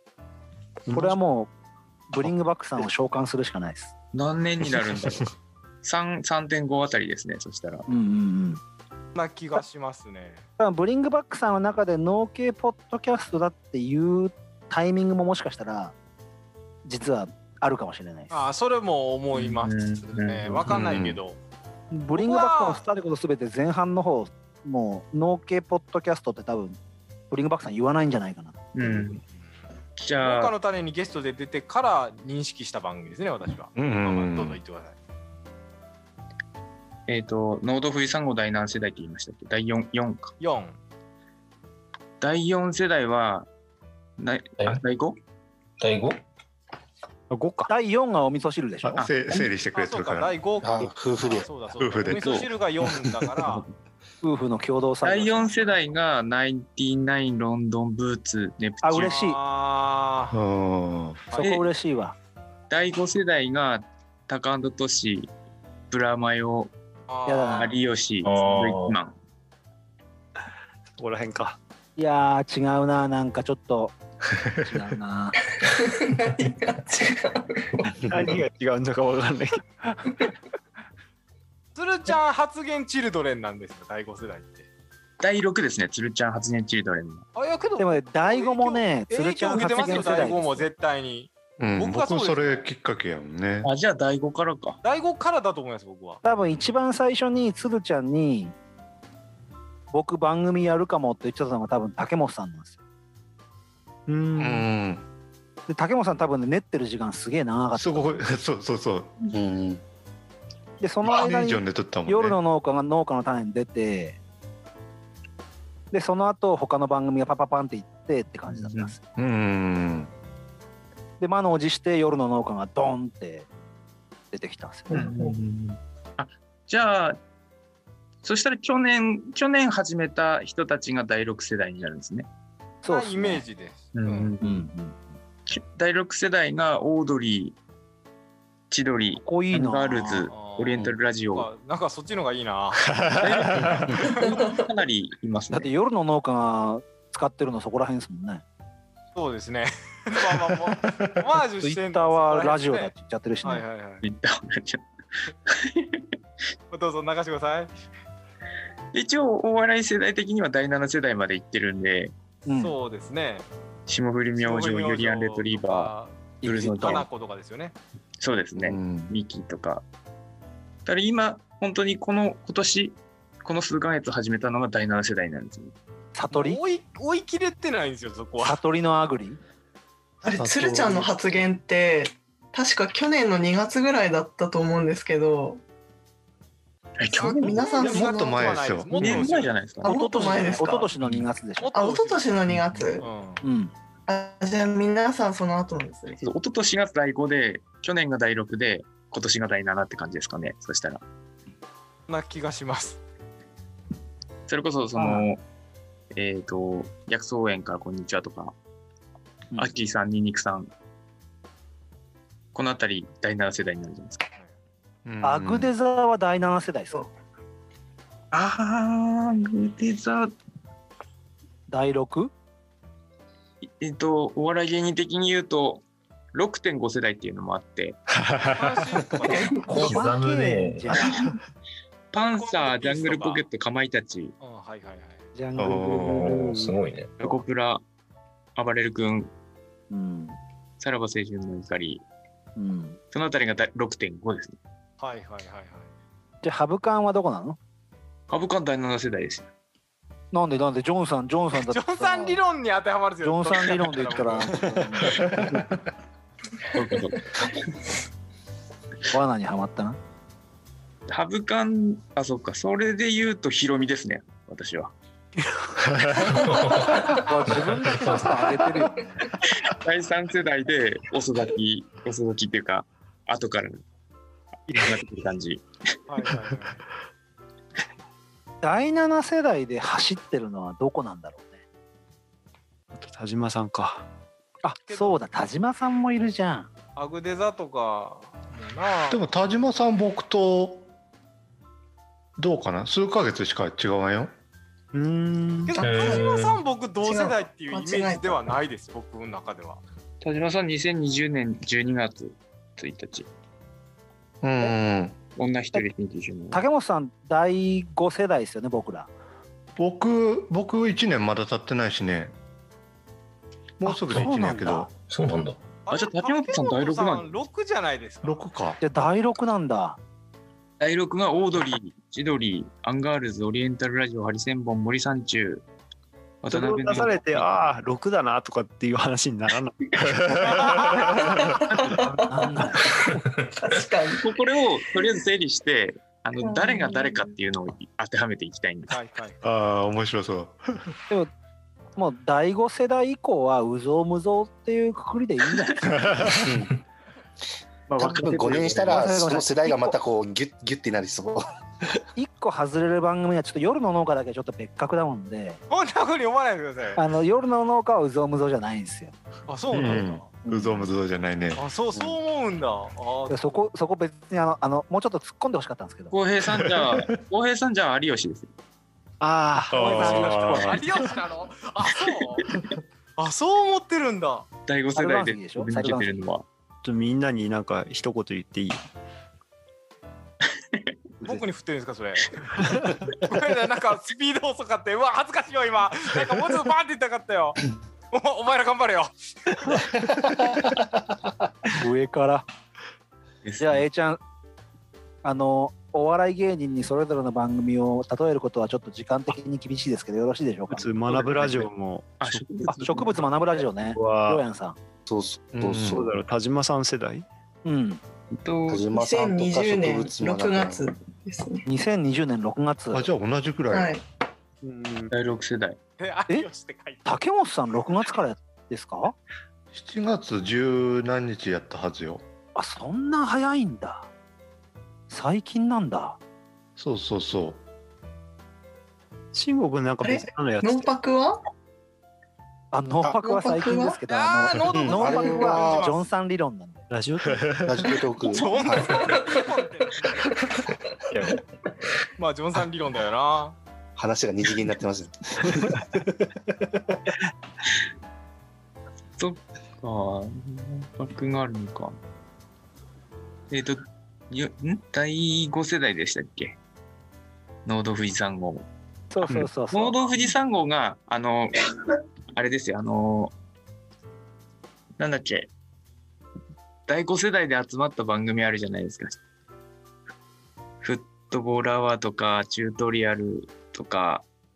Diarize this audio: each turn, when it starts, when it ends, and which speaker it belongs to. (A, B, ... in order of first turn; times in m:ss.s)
0:00.9-0:01.2 A
0:00.9-0:01.5 B
0:02.1-0:03.9 B
0:04.1-0:05.3 C
0:05.8-0:07.8 C
0:07.9-0:08.6 B
0:09.1-0:10.4 D
0:10.6-0:15.9 B
0:16.8-0:18.4 B
0:18.3-0:21.4 D
0:19.3-0:21.1 C
0:21.9-0:26.8 B
0:22.1-0:22.8 D
0:27.3-0:29.2 B
0:28.7-0:29.2 C
0:30.0-0:30.5 C
0:30.2-0:35.0 D
0:33.8-0:34.6 E
0:37.1-0:40.3 C
0:40.4-0:40.8 D
0:42.2-0:43.5 C
0:44.2-0:45.2 C
0:45.8-0:46.2 F
0:47.3-0:47.7 A
0:47.7-0:49.0 B
0:48.8-0:50.4 E
0:49.0-0:49.5 C
0:49.7-0:53.6 D
0:50.6-0:51.5 G
0:51.8-0:52.3 E
0:52.1-0:52.5 C
0:54.2-0:55.8 B
0:55.0-0:59.2 C
0:58.8-0:59.4 B
0:58.9-1:00.4 D
1:00.3-1:01.2 E
1:01.3-1:02.1 B
1:01.4-1:01.7 C
1:02.7-1:05.3 C
1:05.9-1:06.7 C
1:07.1-1:07.8 D
1:07.2-1:07.7 B
1:07.5-1:09.1 C
1:08.2-1:09.0 F
1:11.0-1:11.6 A
1:12.0-1:13.9 B
1:14.5-1:15.4 B
1:15.6-1:17.8 H
1:18.0-1:20.0 A
1:21.7-1:24.6 D
1:25.2-1:27.2 C
1:27.3-1:32.7 D
1:27.8-1:30.7 B
1:29.7-1:30.3 C
1:31.6-1:33.7 E
1:33.6-1:34.8 C
1:34.8-1:36.2 D
1:36.2-1:38.5 B
1:39.9-1:42.7 B
1:44.1-1:44.6 A
1:44.4-1:45.0 E
1:45.7-1:48.3 B
1:47.7-1:49.2 E
1:49.3-1:49.8 G
1:50.8-1:54.2 B
1:51.0-1:52.4 E
1:55.9-1:59.0 B
1:58.5-1:58.9 C
1:59.2-2:00.1 E
2:01.2-2:03.5 B
2:04.3-2:05.1 B
2:04.9-2:05.4 H
2:04.9-2:07.2 C
2:08.2-2:12.3 C
2:12.8-2:13.4 B
2:12.9-2:14.3 D
2:13.9-2:14.6 C
2:14.4-2:15.0 B
2:15.5-2:17.6 C
2:18.7-2:21.5 C
2:19.2-2:20.3 B
2:20.3-2:24.4 D
2:23.0-2:23.9 E
2:23.2-2:25.7 C
2:24.1-2:24.7 H
2:25.5-2:28.4 B
2:29.1-2:34.0 D
2:31.6-2:33.6 B
2:34.0-2:34.8 C
2:35.5-2:36.0 C
2:36.7-2:37.7 D
2:38.9-2:42.1 C
2:42.5-2:42.8 B
2:42.5-2:43.5 D
2:43.9-2:45.9 C
2:44.4-2:47.7 D
2:46.4-2:47.0 B
2:46.4-2:47.0 C
2:48.2-2:49.8 C
2:48.6-2:49.1 E
2:50.8-2:55.7 C
2:56.1-2:56.6 B
2:56.3-2:58.6 D
2:58.4-2:59.4 B
3:00.2-3:05.6 H
3:00.3-3:01.2 E
3:07.0-3:07.7 C
3:07.2-3:08.6 H
3:07.4-3:10.6 D
3:07.8-3:09.2 E
3:09.0-3:10.0 C
3:09.8-3:10.9 H
3:09.8-3:11.8 B
3:11.6-3:12.4 D
3:11.7-3:13.1 H
3:13.0-3:13.4 D
3:13.4-3:13.7 B
3:14.1-3:16.2 H
3:16.2-3:21.0 C
3:22.1-3:23.0 D
3:24.5-3:25.4 C
3:25.0-3:25.2 B
3:26.1-3:28.5 C
3:29.6-3:30.7 C
3:32.5-3:34.3 C
3:35.0-3:35.7 E
3:35.2-3:37.0 B
3:38.3-3:40.3 C
3:41.7-3:42.3 B
3:43.8-3:48.0 C
3:48.2-3:48.9 E
3:48.5-3:50.0 D
3:49.3-3:49.8 H
3:49.7-3:51.0 F
3:49.7-3:51.3 B
3:52.1-3:54.3 C
3:52.2-3:53.4 D
3:54.4-3:55.2 D
3:55.4-3:57.4 B
3:55.6-3:56.3 E
3:55.9-3:57.1 F
3:57.2-3:57.8 C
3:58.6-3:59.3 C
3:59.9-4:00.4 B
4:00.8-4:02.0 C
4:02.6-4:03.0 B
4:03.1-4:04.6 C
4:05.0-4:05.9 D
4:06.4-4:07.6 B
4:08.3-4:09.5 C
4:10.3-4:12.4 B
4:11.6-4:14.8 D
4:13.2-4:15.4 B
4:16.7-4:17.5 C
4:19.1-4:20.0 B
4:21.1-4:24.9 C
4:25.4-4:25.7 A
4:25.9-4:26.4 E
4:26.5-4:28.7 F
4:27.2-4:29.2 B
4:29.6-4:33.8 C
4:34.7-4:35.6 C
4:36.1-4:36.8 D
4:38.6-4:41.5 B
4:42.9-4:44.0 A
4:44.6-4:46.7 B
4:44.8-4:45.2 D
4:47.0-4:49.2 D
4:49.1-4:50.9 E
4:52.4-4:54.3 E
4:54.9-4:55.8 A
4:55.7-4:59.8 D
4:55.8-4:56.5 H
4:55.8-4:56.6 F
4:57.0-4:58.6 H
5:00.2-5:03.3 C
5:04.4-5:05.1 E
5:05.4-5:06.6 C
5:06.5-5:09.1 B
5:09.8-5:12.3 E
5:13.8-5:14.9 E
5:13.8-5:14.9 B
5:15.0-5:15.6 F
5:15.8-5:18.4 D
5:15.9-5:17.4 C
5:18.2-5:18.8 E
5:18.8-5:20.0 B
5:20.8-5:25.6 C
5:26.4-5:27.5 C
5:26.5-5:32.0 A
5:30.6-5:31.2 D
5:31.2-5:32.2 H
5:32.3-5:33.0 B
5:32.8-5:33.1 H
5:33.6-5:34.4 H
5:34.2-5:39.0 C
5:36.4-5:37.3 H
5:38.9-5:39.4 D
5:39.4-5:40.6 E
5:42.0-5:46.1 B
5:46.0-5:46.3 E
5:46.4-5:46.7 G
5:47.9-5:48.8 C
5:48.0-5:51.5 G
5:48.7-5:50.0 B
5:52.2-5:55.6 B
5:55.7-5:57.0 D
5:57.0-5:59.1 B
5:59.5-6:00.3 D
5:59.7-6:01.6 E
5:59.8-6:00.9 B
6:01.5-6:03.4 D
6:03.3-6:06.1 B
6:06.1-6:08.5 C
6:06.6-6:07.1 E
6:09.2-6:10.5 A
6:09.6-6:12.5 D
6:09.7-6:11.1 E
6:13.2-6:14.5 D
6:14.7-6:16.4 C
6:14.9-6:16.1 B
6:16.8-6:18.8 A
6:21.2-6:27.6 D
6:28.1-6:29.1 D
6:31.7-6:32.4 B
6:33.4-6:33.8 C
6:33.6-6:34.2 B
6:35.2-6:41.4 B
6:40.7-6:44.4 A
6:42.2-6:43.2 C
6:42.8-6:44.8 B
6:45.1-6:46.0 G
6:45.5-6:46.1 E
6:45.8-6:47.2 A
6:47.6-6:48.0 B
6:48.6-6:51.7 H
6:48.7-6:50.8 G
6:51.7-6:53.0 B
6:52.9-6:53.9 E
6:53.7-6:54.0 H
6:54.6-6:55.1 A
6:55.1-6:55.8 C
6:56.0-6:57.2 D
6:57.0-6:59.1 B
6:59.7-7:02.2 E
7:02.5-7:04.1 B
7:05.1-7:06.2 B
7:06.8-7:07.6 E
7:09.3-7:10.9 A
7:10.0-7:11.4 H
7:12.7-7:16.8 B
7:13.2-7:14.0 H
7:14.0-7:16.1 D
7:14.7-7:15.9 G
7:15.0-7:15.6 H
7:16.9-7:17.9 A
7:17.7-7:19.0 G
7:18.3-7:20.3 D
7:18.4-7:21.4 H
7:21.1-7:21.4 A
7:22.2-7:23.6 D
7:24.0-7:25.7 G
7:29.2-7:31.9 C
7:33.5-7:36.6 C
7:37.6-7:38.6 C
7:39.1-7:40.3 B
7:39.2-7:41.6 C
7:42.3-7:43.3 C
7:45.0-7:45.5 C
7:46.9-7:49.1 C
7:50.8-7:54.2 C